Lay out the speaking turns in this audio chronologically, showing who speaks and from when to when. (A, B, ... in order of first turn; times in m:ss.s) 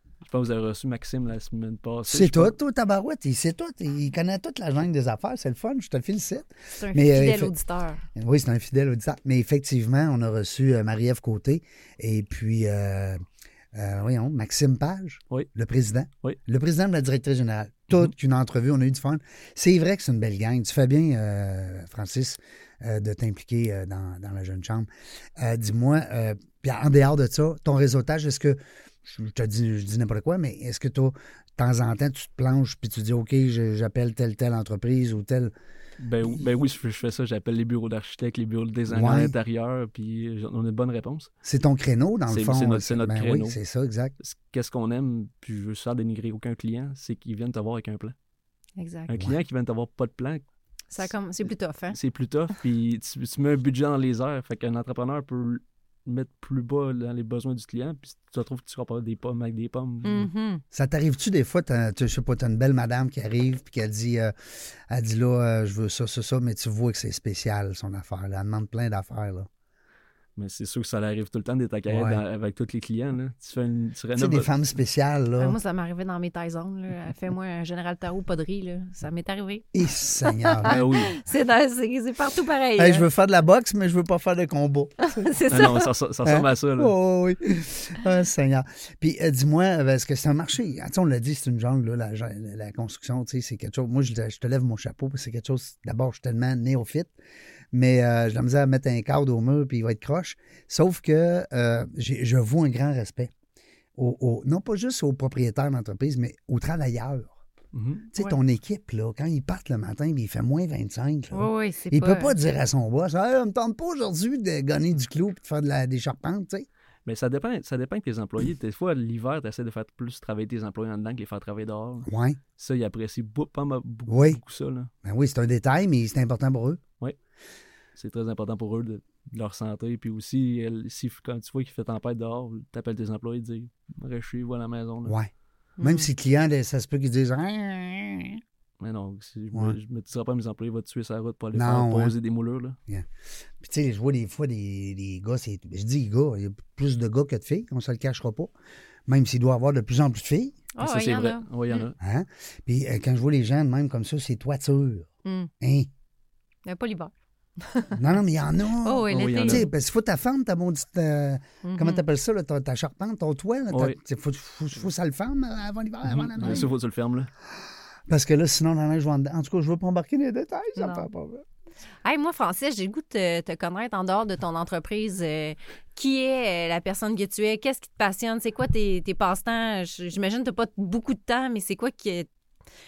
0:00.2-0:02.6 A
0:02.1-0:07.5 B
0:06.8-0:08.0 C
0:08.1-0:35.5 B
0:36.0-0:41.3 A
0:38.9-0:39.3 B
0:41.4-0:44.1 B
0:42.3-0:43.6 A
0:44.2-0:48.1 A
0:48.8-0:49.1 C
0:49.1-0:50.4 A
0:49.1-0:49.4 B
0:50.9-0:52.0 C
0:51.9-1:00.3 A
1:00.0-1:00.6 C
1:00.7-1:09.5 B
1:10.4-1:14.5 A
1:11.9-1:12.2 B
1:14.1-1:15.6 B
1:15.4-1:23.1 C
1:19.7-1:20.8 B
1:20.6-1:21.2 A
1:22.8-1:25.3 B
1:25.0-1:25.9 C
1:25.5-1:26.9 A
1:26.2-1:37.1 B
1:37.7-1:43.3 B
1:44.0-1:47.4 B
1:47.7-1:48.1 A
1:48.1-1:56.7 B
1:51.3-1:52.3 C
1:57.0-2:02.1 A
2:02.0-2:02.4 B
2:02.6-2:04.9 A
2:04.1-2:04.4 B
2:05.0-2:06.8 B
2:08.0-2:15.1 A
2:15.0-2:18.4 B
2:15.8-2:16.1 C
2:18.8-2:22.8 A
2:21.5-2:22.1 B
2:23.6-2:28.5 B
2:29.1-2:30.6 B
2:30.7-2:31.9 C
2:30.8-2:32.0 A
2:32.0-2:35.1 B
2:35.2-2:35.5 C
2:35.6-2:35.9 B
2:36.6-2:38.0 C
2:37.9-2:46.7 B
2:38.7-2:39.6 C
2:39.1-2:39.7 A
2:41.6-2:42.0 C
2:43.7-2:44.0 A
2:46.0-2:47.3 A
2:48.1-2:51.4 B
2:50.8-2:51.1 C
2:52.0-3:02.3 C